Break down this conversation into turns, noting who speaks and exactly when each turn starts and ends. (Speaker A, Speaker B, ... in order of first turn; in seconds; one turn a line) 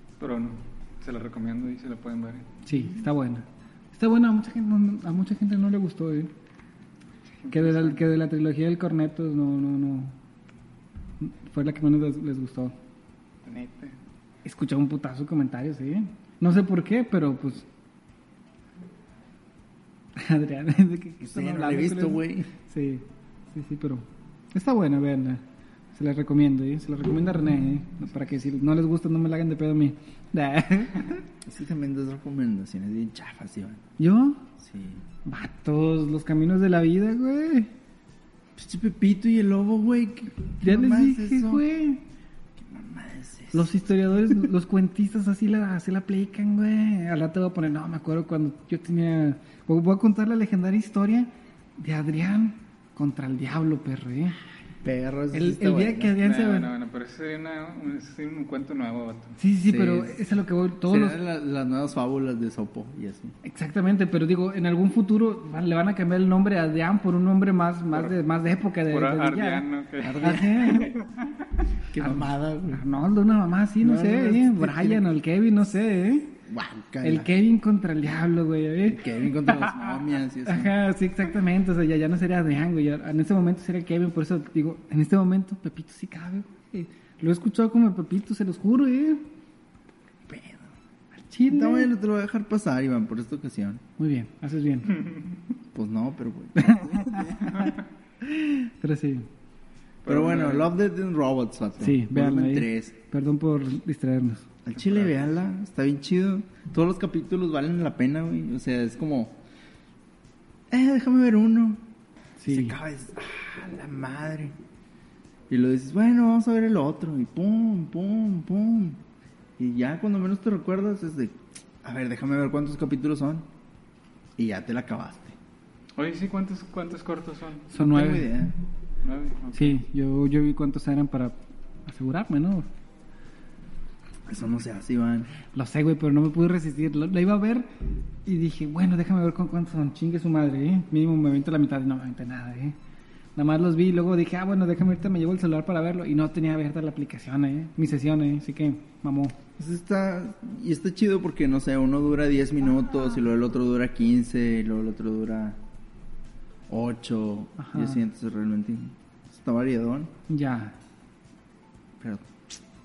Speaker A: 0.2-2.5
Speaker B: 2.6-6.3
Speaker A: 7.4-8.0
Speaker B: 7.5-10.2
Speaker B: 11.2-12.8
Speaker A: 13.4-14.0
Speaker B: 14.4-17.7
Speaker B: 20.2-25.4
Speaker C: 21.2-22.5
Speaker B: 25.9-31.2
Speaker C: 31.4-33.9
Speaker B: 34.0-34.5
Speaker C: 34.6-35.0
Speaker B: 35.2-37.7
Speaker C: 38.6-41.6
Speaker B: 40.6-42.0
Speaker C: 42.6-43.7
Speaker B: 43.5-54.4
Speaker C: 54.8-56.2
Speaker B: 55.3-56.7
Speaker A: 56.2-59.4
Speaker B: 59.4-61.2
Speaker C: 59.7-60.2
Speaker C: 60.9-63.4
Speaker B: 63.4-70.9
Speaker A: 68.9-71.5
Speaker C: 70.0-70.5
Speaker C: 71.9-72.8
Speaker B: 72.7-76.3
Speaker C: 73.8-75.1
Speaker C: 76.5-77.3
Speaker B: 77.0-79.1
Speaker C: 78.9-80.8
Speaker B: 80.5-89.2
Speaker C: 90.3-90.7
Speaker B: 91.2-91.9
Speaker C: 91.5-93.8
Speaker B: 94.0-94.9
Speaker C: 95.7-97.7
Speaker B: 96.6-97.7
Speaker B: 98.2-99.3
Speaker A: 100.0-100.7
Speaker C: 100.1-102.9
Speaker B: 101.8-104.5
Speaker C: 104.7-109.4
Speaker A: 104.8-105.2
Speaker C: 110.7-111.8
Speaker B: 112.4-112.8
Speaker C: 112.5-114.5
Speaker C: 115.5-119.0
Speaker C: 119.6-123.5
Speaker C: 124.4-125.4
Speaker A: 126.0-127.7
Speaker B: 127.7-128.3
Speaker C: 127.8-128.5
Speaker A: 129.0-129.8
Speaker B: 129.5-132.7
Speaker C: 134.3-135.3
Speaker B: 135.5-137.7
Speaker B: 138.2-142.8
Speaker B: 143.4-149.4
Speaker C: 149.6-155.6
Speaker C: 156.7-160.1
Speaker B: 157.6-158.0
Speaker B: 160.3-160.8
Speaker C: 162.0-162.6